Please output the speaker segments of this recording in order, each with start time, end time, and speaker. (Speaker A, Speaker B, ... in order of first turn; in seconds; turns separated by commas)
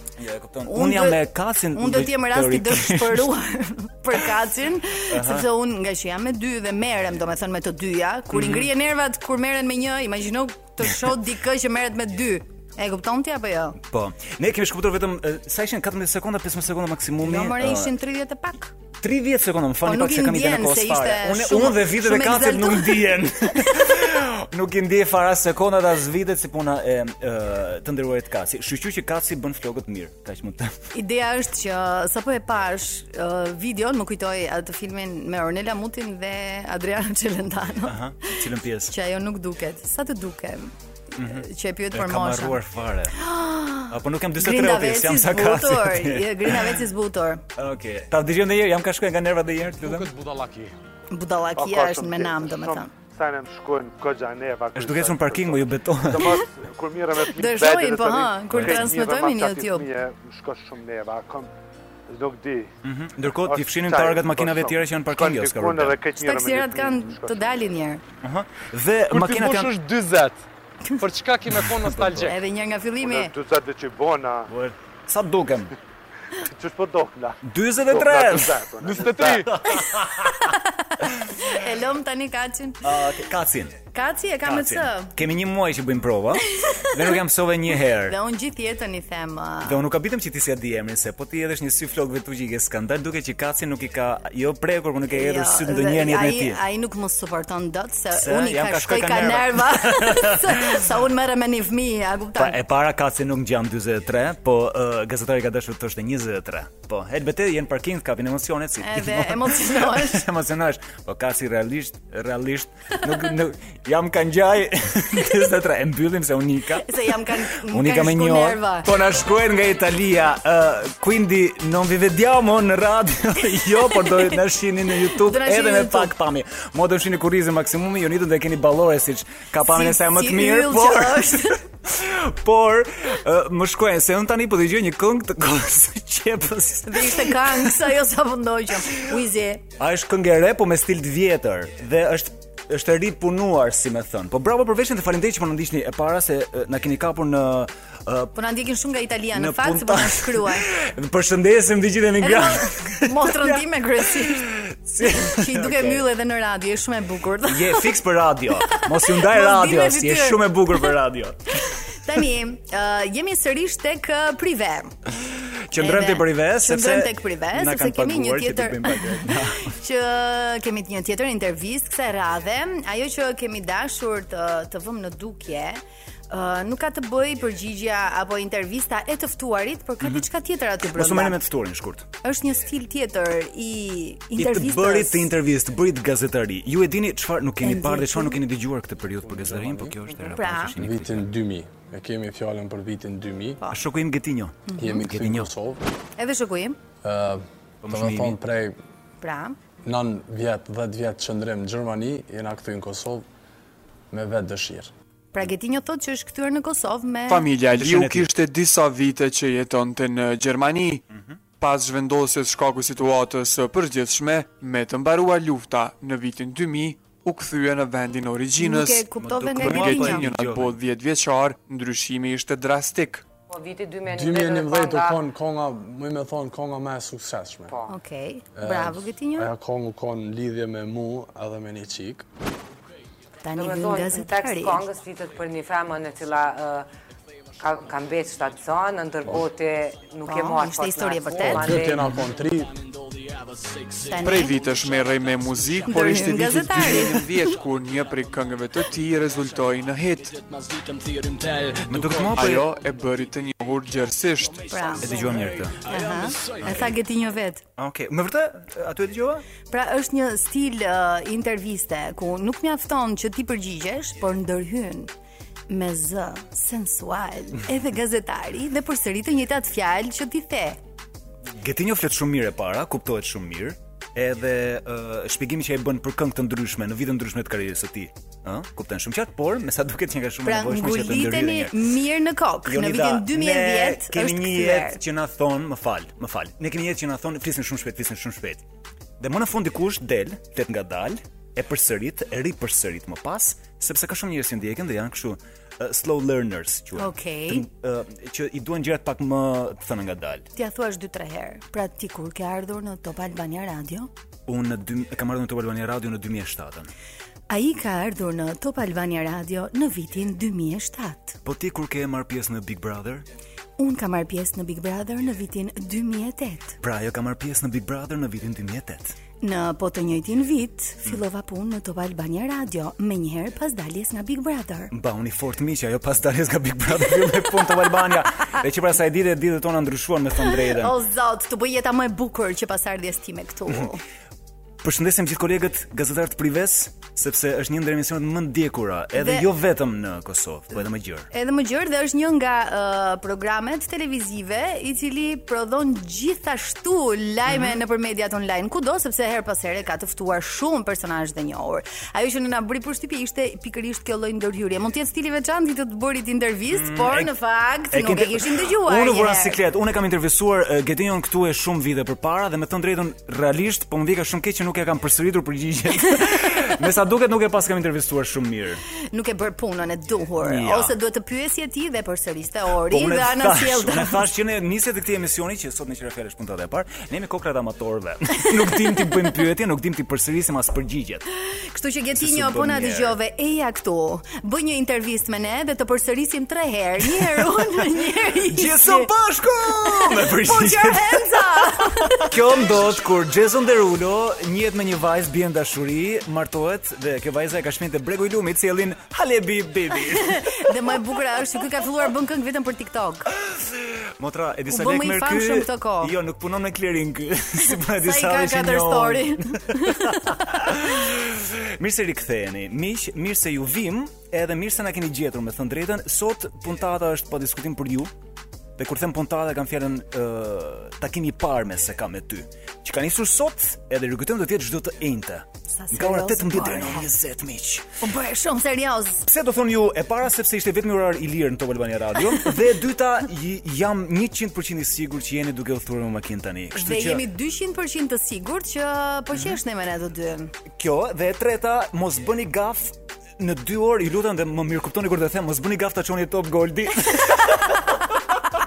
Speaker A: 0.2-3.3, Speaker B: 0.6-1.2, Speaker B: 1.8-13.8, Speaker A: 5.1-5.5, Speaker A: 8.3-8.7, Speaker A: 13.8-17.9, Speaker B: 17.2-18.7, Speaker A: 19.0-30.8, Speaker B: 19.9-23.2, Speaker B: 30.9-42.6, Speaker A: 37.9-38.9, Speaker A: 41.2-43.1, Speaker B: 43.1-47.4, Speaker A: 43.9-46.8, Speaker A: 47.6-50.1, Speaker C: 49.9-50.6, Speaker B: 51.1-52.9, Speaker D: 51.6-61.5, Speaker A: 54.8-56.4, Speaker B: 57.3-59.9, Speaker A: 58.5-58.9, Speaker D: 62.1-62.7, Speaker A: 62.8-66.0, Speaker D: 63.2-67.7, Speaker B: 66.2-68.0, Speaker A: 68.2-69.7, Speaker D: 69.1-70.3, Speaker C: 69.2-70.4, Speaker D: 71.0-72.3, Speaker C: 71.0-72.2, Speaker A: 71.5-72.3, Speaker B: 72.2-73.3, Speaker D: 73.0-74.5, Speaker A: 74.5-75.7, Speaker D: 76.4-79.5, Speaker A: 77.4-80.5, Speaker C: 79.0-79.4, Speaker B: 80.4-82.9, Speaker A: 82.8-83.8, Speaker B: 83.9-85.1, Speaker A: 84.4-88.2, Speaker B: 86.6-86.9, Speaker B: 88.0-89.8, Speaker A: 89.6-96.6, Speaker B: 95.1-102.6, Speaker A: 98.1-100.9, Speaker A: 102.4-137.9, Speaker B: 108.8-110.2, Speaker B: 116.8-118.9, Speaker B: 124.0-124.3, Speaker B: 125.1-126.1, Speaker B: 129.6-131.6, Speaker B: 136.9-139.6, Speaker A: 139.8-148.3, Speaker B: 148.3-150.7, Speaker A: 149.3-156.1, Speaker B: 152.2-154.5, Speaker B: 155.0-157.9, Speaker A: 157.5-161.4, Speaker B: 158.7-160.9, Speaker B: 162.0-164.9, Speaker A: 165.7-169.7, Speaker B: 165.8-181.4, Speaker A: 180.9-182.1, Speaker B: 182.2-185.3, Speaker A: 184.4-191.3, Speaker B: 187.6-188.4, Speaker E: 189.2-190.0, Speaker B: 190.2-190.8, Speaker E: 190.8-193.6, Speaker A: 193.7-195.5, Speaker B: 194.7-195.0, Speaker E: 194.8-195.8, Speaker B: 196.2-196.8, Speaker E: 197.0-198.8, Speaker A: 197.8-198.4, Speaker B: 199.2-199.6, Speaker E: 199.8-203.2, Speaker E: 204.1-204.9, Speaker B: 205.3-207.5, Speaker F: 207.3-211.0, Speaker A: 207.7-208.3, Speaker A: 211.1-211.4, Speaker F: 211.6-223.2, Speaker B: 218.6-220.3, Speaker A: 219.2-220.8, Speaker G: 223.5-225.2, Speaker E: 224.1-227.8, Speaker G: 227.7-227.9, Speaker B: 227.9-229.5, Speaker E: 228.6-232.2, Speaker B: 233.4-234.8, Speaker G: 233.6-236.9, Speaker G: 237.6-242.1, Speaker B: 240.2-241.9, Speaker E: 241.4-242.8, Speaker B: 244.1-244.6, Speaker F: 244.2-250.4, Speaker B: 245.9-247.4, Speaker A: 251.8-252.7, Speaker F: 252.3-254.7, Speaker B: 254.7-255.1, Speaker A: 255.0-255.8, Speaker B: 255.9-257.6, Speaker A: 256.6-256.9, Speaker A: 257.8-259.4, Speaker B: 259.7-265.1, Speaker B: 265.7-270.8, Speaker A: 271.5-281.8, Speaker B: 280.4-285.0, Speaker A: 282.6-288.6, Speaker A: 289.2-300.5, Speaker B: 297.0-297.6, Speaker B: 300.6-304.1, Speaker A: 304.5-306.9, Speaker B: 307.5-311.4, Speaker A: 311.4-313.2, Speaker B: 313.8-316.8, Speaker A: 316.8-319.1, Speaker B: 319.4-324.9, Speaker A: 324.9-330.9, Speaker B: 330.4-334.0, Speaker A: 334.8-341.3, Speaker B: 339.1-339.5, Speaker B: 341.3-359.6, Speaker A: 347.5-347.8, Speaker A: 356.7-357.3, Speaker A: 357.9-368.8, Speaker B: 369.1-374.2, Speaker A: 370.4-370.9, Speaker A: 372.9-381.2, Speaker B: 381.7-389.1, Speaker A: 382.2-383.1, Speaker A: 387.1-387.7, Speaker A: 388.4-400.7, Speaker B: 389.7-392.7, Speaker B: 400.2-403.3, Speaker A: 403.5-418.1, Speaker B: 404.7-406.1, Speaker B: 407.9-410.6, Speaker A: 418.8-427.9, Speaker B: 425.7-427.1, Speaker B: 428.0-429.3, Speaker A: 429.3-437.2, Speaker B: 436.8-440.5, Speaker A: 440.8-447.9